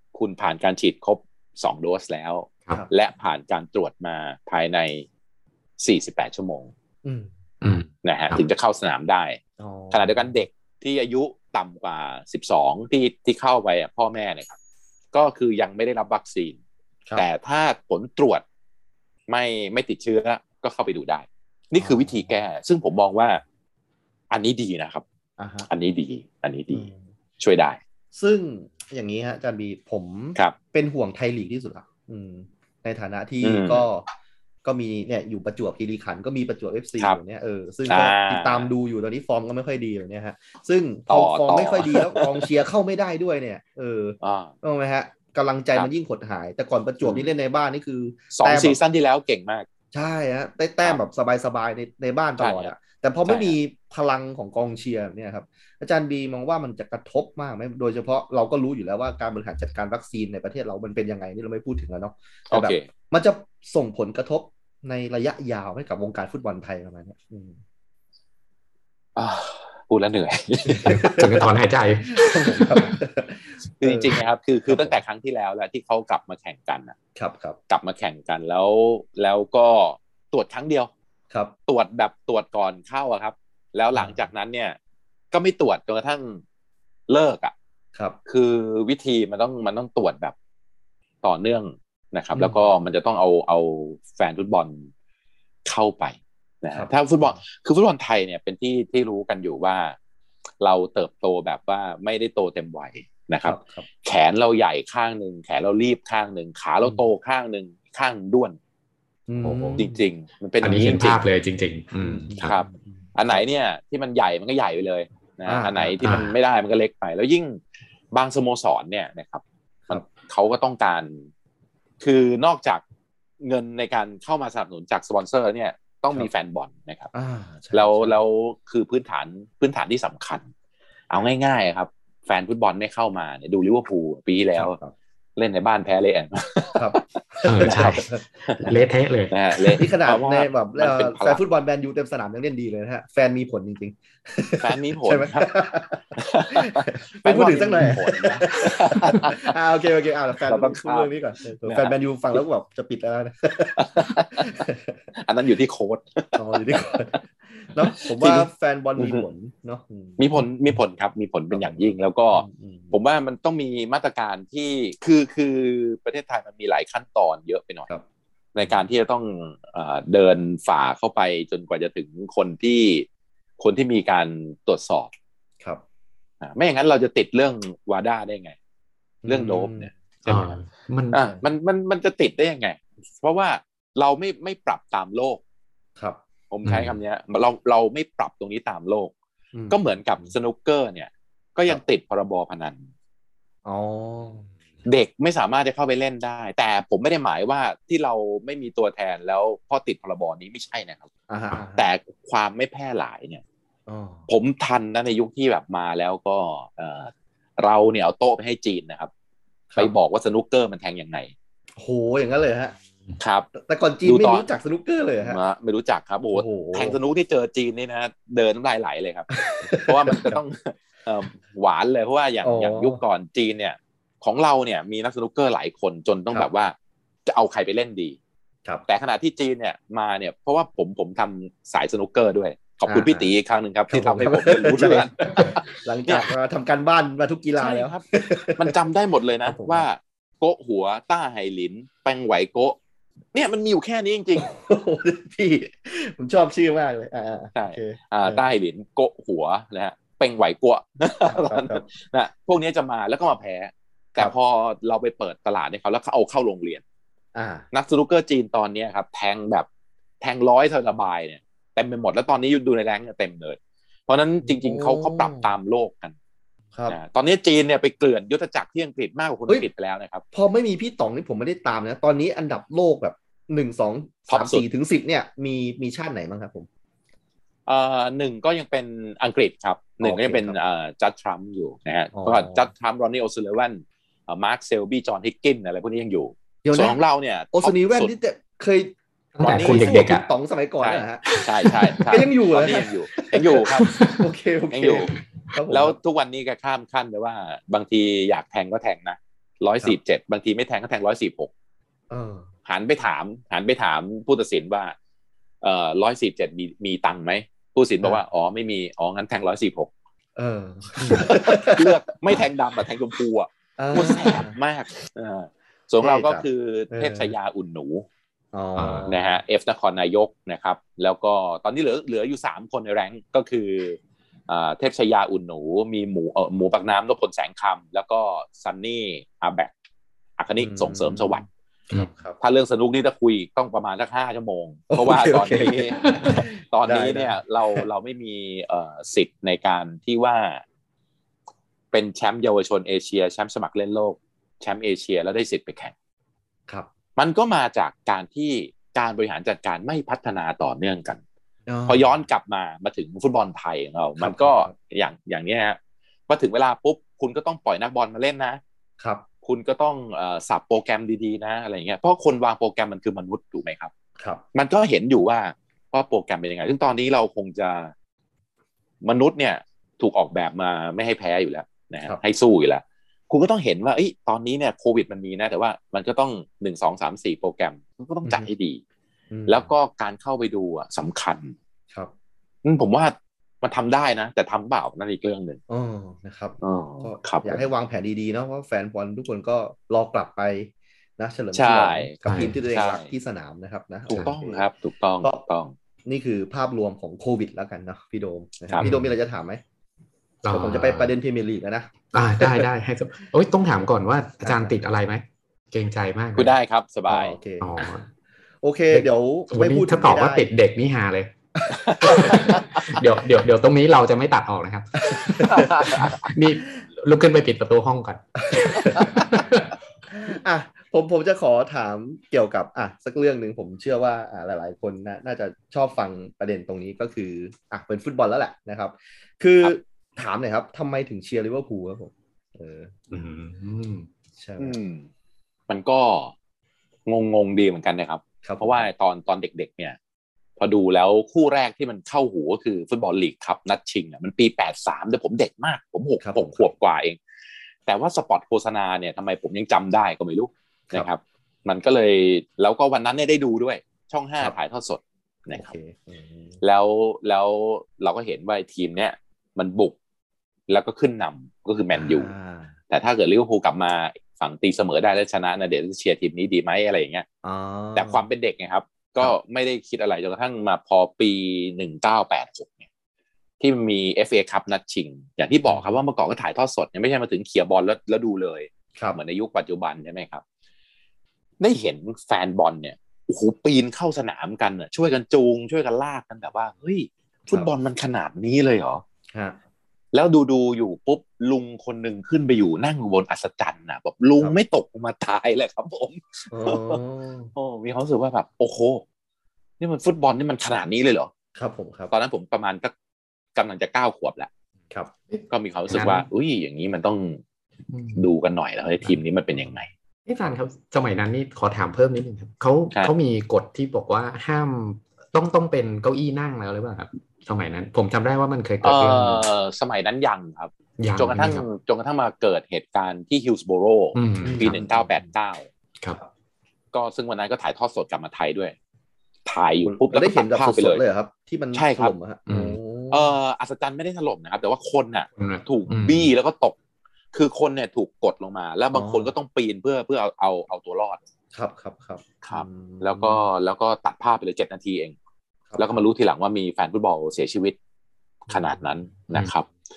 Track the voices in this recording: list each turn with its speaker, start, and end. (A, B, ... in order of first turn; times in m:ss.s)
0:00.1-0:05.1 A
0:05.8-0:06.7 A
0:07.0-0:07.3 B
0:07.6-0:08.4 C
0:08.0-0:09.4 A
0:09.6-0:10.3 B
0:09.9-0:14.6 A
0:15.1-0:16.6 A
0:17.2-0:18.4 A
0:19.3-0:23.4 A
0:21.8-0:22.3 B
0:24.3-0:25.0 A
0:25.4-0:25.7 B
0:25.7-0:26.9 A
0:26.7-0:27.0 B
0:27.4-0:27.8 A
0:28.1-0:34.1 B
0:33.4-0:33.9 A
0:34.6-0:48.8 B
0:37.9-0:38.7 A
0:41.1-0:42.5 A
0:44.2-0:44.5 A
0:47.0-0:47.3 A
0:48.3-0:49.7 A
0:49.9-1:07.6 B
0:52.4-0:52.7 A
0:53.2-0:53.6 A
1:02.5-1:02.8 A
1:09.2-1:11.0 A
1:10.7-1:11.5 B
1:10.8-1:12.9 C
1:12.1-1:15.0 B
1:13.8-1:17.0 A
1:17.2-1:17.6 B
1:17.7-1:20.9 A
1:21.7-1:24.8 A
1:23.9-1:24.3 B
1:25.3-1:26.4 A
1:27.1-1:27.5 A
1:28.3-1:30.4 A
1:31.2-1:34.9 A
1:32.4-1:32.7 B
1:35.7-1:40.0 A
1:36.7-1:37.4 B
1:40.6-1:48.6 A
1:43.4-1:43.9 B
1:49.3-1:50.0 B
1:49.4-1:49.8 C
1:49.8-1:51.2 A
1:50.6-1:52.5 C
1:52.0-1:53.4 B
1:52.4-1:57.6 A
1:55.5-1:56.2 B
1:56.0-1:56.3 C
1:58.1-2:01.3 A
2:02.0-2:02.8 A
2:03.4-2:07.1 A
2:07.1-2:08.2 B
2:07.7-2:10.5 A
2:11.1-2:14.8 A
2:14.6-2:14.9 B
2:15.4-2:18.8 A
2:16.8-2:18.2 B
2:17.5-2:19.8 C
2:19.3-2:21.4 A
2:19.8-2:35.0 B
2:24.6-2:25.5 A
2:26.2-2:29.5 A
2:30.4-2:32.4 A
2:33.8-2:34.5 A
2:35.2-2:36.8 A
2:36.4-2:40.3 B
2:37.8-2:39.3 A
2:40.2-2:47.9 A
2:41.5-2:43.0 B
2:48.6-2:53.1 A
2:53.6-2:55.1 A
2:56.4-2:58.6 A
2:59.2-2:59.9 B
2:59.3-3:00.6 A
3:00.3-3:01.2 C
3:01.1-3:05.4 A
3:06.5-3:09.1 A
3:06.7-3:07.0 C
3:09.5-3:10.3 B
3:09.7-3:12.8 A
3:13.6-3:14.5 B
3:14.8-3:21.1 A
3:21.3-3:21.8 B
3:21.6-3:23.4 A
3:23.9-3:24.3 B
3:24.3-3:29.1 A
3:29.8-3:31.3 A
3:31.8-3:32.8 B
3:33.2-3:33.5 A
3:33.5-3:35.4 B
3:34.0-3:34.5 A
3:35.2-3:46.8 A
3:36.3-3:37.0 B
3:39.3-3:40.4 B
3:42.4-3:43.0 B
3:47.3-3:48.2 A
3:48.9-3:56.3 A
3:52.9-3:53.3 B
3:53.9-3:58.8 B
3:57.6-4:02.8 A
3:59.4-3:59.9 B
4:03.3-4:04.5 A
4:04.4-4:08.4 B
4:07.6-4:16.8 A
4:11.3-4:11.9 B
4:17.4-4:17.7 B
4:17.7-4:19.7 A
4:20.2-4:26.2 A
4:24.4-4:25.5 B
4:26.9-4:30.2 A
4:30.3-4:36.7 B
4:34.3-4:34.7 A
4:37.7-4:48.1 A
4:40.0-4:40.6 B
4:42.1-4:42.7 B
4:46.6-4:47.0 B
4:47.5-4:56.0 B
4:49.4-4:50.3 C
4:49.4-4:50.0 A
4:50.8-4:54.0 A
4:51.3-4:52.0 C
4:53.8-4:54.2 C
4:54.7-4:55.1 A
4:55.7-5:01.5 A
5:02.1-5:02.5 B
5:02.7-5:05.0 A
5:05.6-5:09.9 A
5:10.4-5:12.0 B
5:11.1-5:18.1 A
5:13.8-5:14.6 B
5:16.0-5:17.3 B
5:18.5-5:19.3 B
5:18.8-5:19.1 C
5:19.1-5:29.7 A
5:30.4-5:31.4 A
5:30.6-5:32.4 B
5:32.4-5:40.6 A
5:34.9-5:37.9 B
5:41.9-5:45.9 A
5:47.2-5:51.2 A
5:51.7-5:52.1 B
5:51.9-5:55.8 A
5:54.2-5:54.7 B
5:56.3-5:58.6 A
5:59.4-6:03.9 A
6:04.5-6:07.9 A
6:09.0-6:18.8 A
6:18.2-6:18.5 B
6:19.3-6:19.7 B
6:19.5-6:21.5 A
6:22.6-6:25.6 A
6:25.7-6:34.6 B
6:26.6-6:27.6 A
6:31.5-6:32.2 A
6:32.2-6:32.5 C
6:32.7-6:33.1 A
6:34.1-6:35.7 A
6:36.0-6:39.6 B
6:38.8-6:39.2 C
6:40.4-6:41.2 C
6:40.5-6:42.7 B
6:42.1-6:46.6 C
6:44.4-6:44.8 B
6:46.4-6:47.4 A
6:47.1-6:47.9 B
6:47.6-6:48.0 C
6:48.6-6:50.5 B
6:48.9-6:51.3 C
6:51.6-6:53.0 B
6:51.8-6:52.9 A
6:52.0-6:59.7 C
6:55.0-6:56.1 B
6:55.4-6:56.3 A
6:58.4-6:59.2 B
6:59.0-6:59.2 A
7:00.1-7:12.9 B
7:13.1-7:14.1 C
7:14.4-7:14.8 B
7:14.6-7:15.1 A
7:15.7-7:16.3 A
7:17.1-7:20.0 A
7:18.4-7:18.9 B
7:20.6-7:27.2 A
7:26.2-7:26.7 B
7:27.9-7:35.7 A
7:35.5-7:36.6 B
7:36.6-7:40.0 A
7:40.7-7:42.3 A
7:41.9-7:42.8 B
7:42.9-7:47.3 A
7:47.4-7:48.2 B
7:48.0-7:52.8 A
7:53.6-8:00.4 A
7:55.7-7:56.0 B
8:01.6-8:09.0 A
8:09.3-8:09.6 B
8:10.1-8:17.0 A
8:16.5-8:17.5 B
8:17.6-8:19.0 A
8:19.8-8:21.3 A
8:21.6-8:22.1 B
8:22.1-8:22.9 A
8:23.6-8:24.5 A
8:25.3-8:26.3 C
8:25.5-8:27.4 A
8:27.9-8:28.2 C
8:28.2-8:29.9 A
8:30.3-8:39.5 C
8:38.8-8:45.7 A
8:41.0-8:41.7 C
8:44.2-8:44.9 C
8:44.4-8:45.1 B
8:46.9-8:48.8 A
8:49.5-8:51.0 A
8:49.8-8:53.4 B
8:51.7-8:52.2 A
8:52.5-8:52.8 C
8:53.1-8:56.8 A
8:55.4-8:56.3 C
8:57.3-9:01.2 A
8:58.9-8:59.3 B
9:01.5-9:03.4 B
9:02.4-9:05.2 A
9:05.7-9:06.0 B
9:05.8-9:07.8 A
9:08.5-9:09.0 B
9:08.5-9:09.7 A